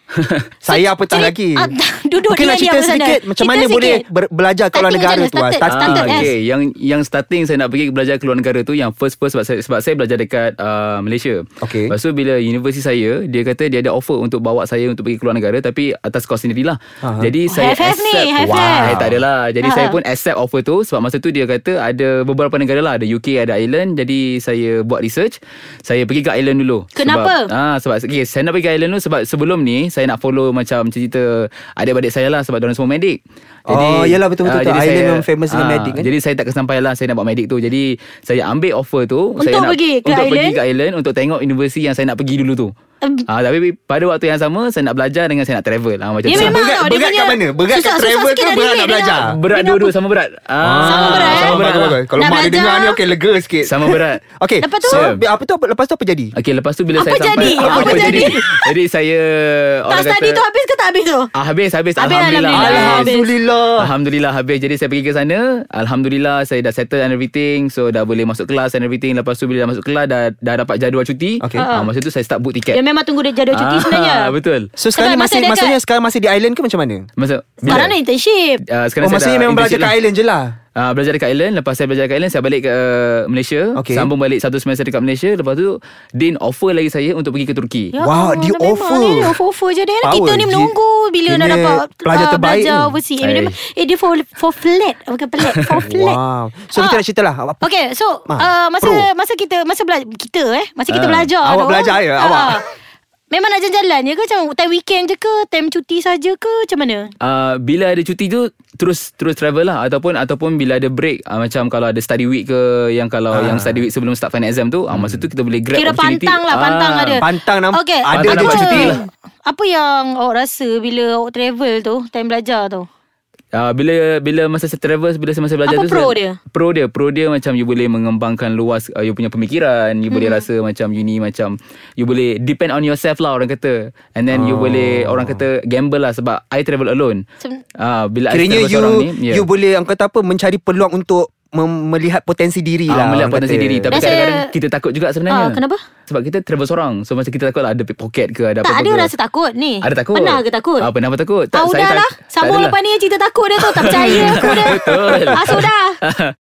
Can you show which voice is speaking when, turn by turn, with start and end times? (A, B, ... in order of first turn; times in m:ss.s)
0:00.6-0:01.7 A
0:00.7-0:04.0 B
0:02.2-0:06.3 A
0:04.7-0:06.3 B
0:05.7-0:42.7 C
0:11.6-0:11.9 A
0:17.0-0:17.3 A
0:17.5-0:19.0 B
0:18.4-0:19.2 A
0:19.6-0:20.0 B
0:26.9-0:27.5 B
0:33.7-0:36.1 A
0:39.4-0:40.6 B
0:43.3-0:46.6 C
0:46.2-0:49.9 B
0:46.3-0:49.4 A
0:49.2-0:52.0 C
0:50.6-0:56.3 A
0:50.8-0:51.6 B
0:52.2-0:53.0 B
0:53.6-0:54.2 C
0:54.6-0:55.1 B
0:54.9-0:55.2 C
0:56.3-1:00.4 C
0:57.0-0:58.7 B
0:57.4-0:58.4 A
0:59.9-1:01.3 B
1:01.3-1:03.2 C
1:02.0-1:03.3 B
1:02.5-1:03.9 A
1:03.8-1:12.8 C
1:11.6-1:11.9 B
1:12.7-1:14.3 B
1:13.5-1:14.7 C
1:14.8-1:17.1 A
1:15.0-1:15.8 B
1:17.2-1:17.9 C
1:17.6-1:17.9 A
1:17.7-1:18.6 B
1:18.7-1:20.0 C
1:19.0-1:20.5 A
1:20.8-1:27.9 C
1:23.8-1:24.1 A
1:27.9-1:36.2 B
1:28.0-1:29.4 A
1:30.0-1:30.7 A
1:31.3-1:33.5 A
1:35.8-1:37.6 A
1:36.7-1:37.0 B
1:37.6-1:42.6 B
1:38.3-1:39.1 A
1:40.9-1:41.3 C
1:41.4-1:42.6 A
1:43.3-1:47.1 B
1:47.2-1:57.2 C
1:53.3-1:53.8 A
1:55.7-2:02.8 B
1:57.2-1:59.0 A
1:58.1-1:59.0 C
2:03.5-2:17.2 C
2:05.7-2:06.4 B
2:10.1-2:10.4 B
2:14.3-2:15.4 A
2:17.8-2:19.4 C
2:18.3-2:24.1 A
2:22.9-2:29.1 C
2:23.9-2:24.5 B
2:25.3-2:25.8 B
2:28.6-2:30.9 B
2:29.8-2:32.8 C
2:31.5-2:36.0 B
2:33.6-2:36.3 C
2:33.8-2:35.4 A